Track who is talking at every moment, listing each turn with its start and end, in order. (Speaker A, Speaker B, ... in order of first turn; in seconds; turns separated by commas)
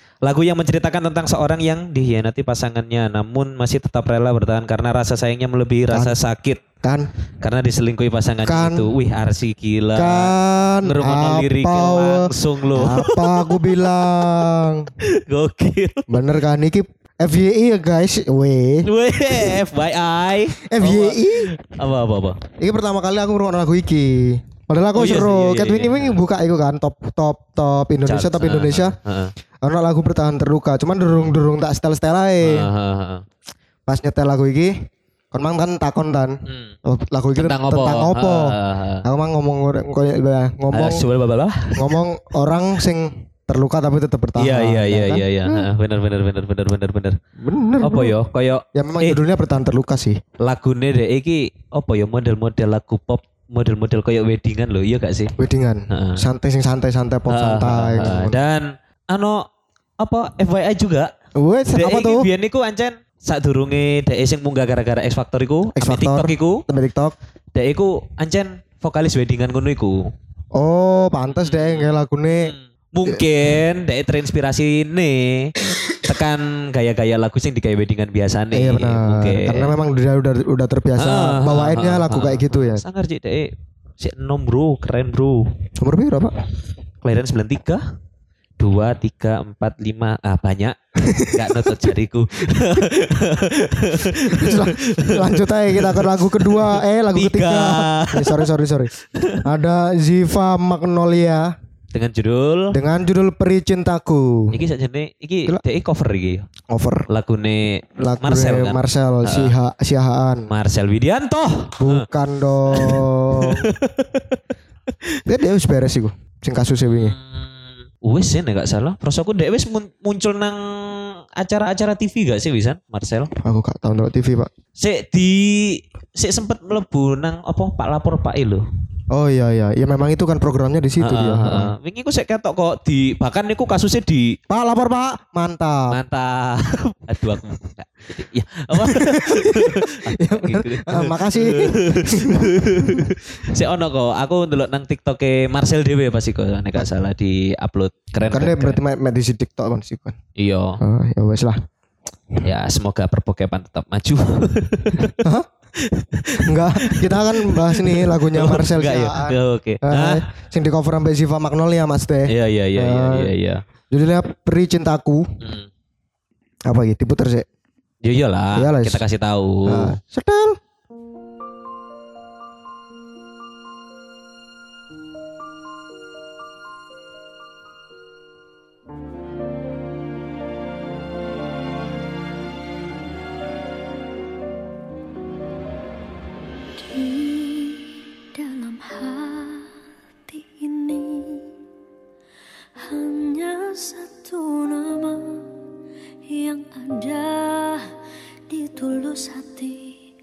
Speaker A: 0.2-6.6, Speaker B: 5.9-6.2, Speaker B: 6.8-7.1, Speaker A: 7.4-14.5, Speaker B: 8.4-8.9, Speaker B: 9.9-14.9, Speaker A: 15.0-16.1, Speaker B: 16.1-19.6, Speaker A: 18.9-22.4, Speaker B: 20.6-21.5, Speaker B: 22.6-29.0, Speaker A: 24.9-26.2, Speaker A: 28.1-29.3, Speaker B: 29.6-32.7, Speaker A: 32.4-33.2, Speaker B: 33.9-34.8, Speaker B: 35.3-41.0, Speaker A: 36.5-36.8, Speaker A: 37.4-39.0, Speaker A: 40.7-41.9, Speaker B: 41.8-45.7, Speaker A: 44.4-47.2, Speaker B: 47.4-48.2, Speaker A: 47.8-49.2, Speaker B: 48.7-50.2, Speaker A: 50.4-55.4, Speaker B: 55.4-58.4, Speaker A: 55.9-56.2, Speaker A: 57.3-59.5, Speaker A: 60.0-61.1, Speaker B: 61.4-62.3, Speaker A: 61.7-66.6, Speaker B: 65.8-67.2, Speaker A: 67.5-70.1, Speaker B: 70.5-72.5, Speaker A: 71.3-71.9, Speaker A: 72.4-79.7, Speaker B: 78.5-82.8, Speaker A: 81.0-85.5, Speaker B: 85.8-86.3, Speaker A: 87.0-87.8, Speaker A: 88.6-99.4, Speaker B: 91.0-91.8, Speaker B: 94.1-98.9, Speaker B: 99.4-101.5, Speaker A: 101.9-102.8, Speaker B: 102.7-104.6, Speaker A: 104.5-106.5, Speaker B: 106.7-107.1, Speaker A: 107.1-109.5, Speaker B: 108.0-110.5, Speaker A: 110.5-112.1, Speaker B: 111.8-113.7, Speaker A: 112.7-114.4, Speaker B: 115.2-117.2, Speaker A: 116.9-123.3, Speaker B: 123.4-124.5, Speaker A: 124.8-128.6, Speaker B: 129.1-131.7, Speaker A: 131.0-134.4, Speaker B: 134.5-136.0, Speaker A: 135.9-148.8, Speaker B: 138.7-143.1, Speaker B: 148.3-150.2, Speaker A: 150.4-150.8, Speaker B: 150.8-151.6, Speaker A: 152.4-155.2, Speaker B: 155.2-155.5, Speaker A: 155.8-160.2, Speaker B: 156.4-163.3, Speaker A: 162.3-163.6, Speaker B: 163.9-165.2, Speaker A: 165.4-165.7, Speaker B: 166.7-167.5, Speaker A: 168.0-170.0, Speaker B: 168.6-169.0, Speaker B: 169.7-170.6, Speaker C: 186.8-189.7, Speaker C: 190.3-191.5, Speaker C: 192.8-195.5, Speaker C: 196.3-197.9, Speaker C: 198.5-200.1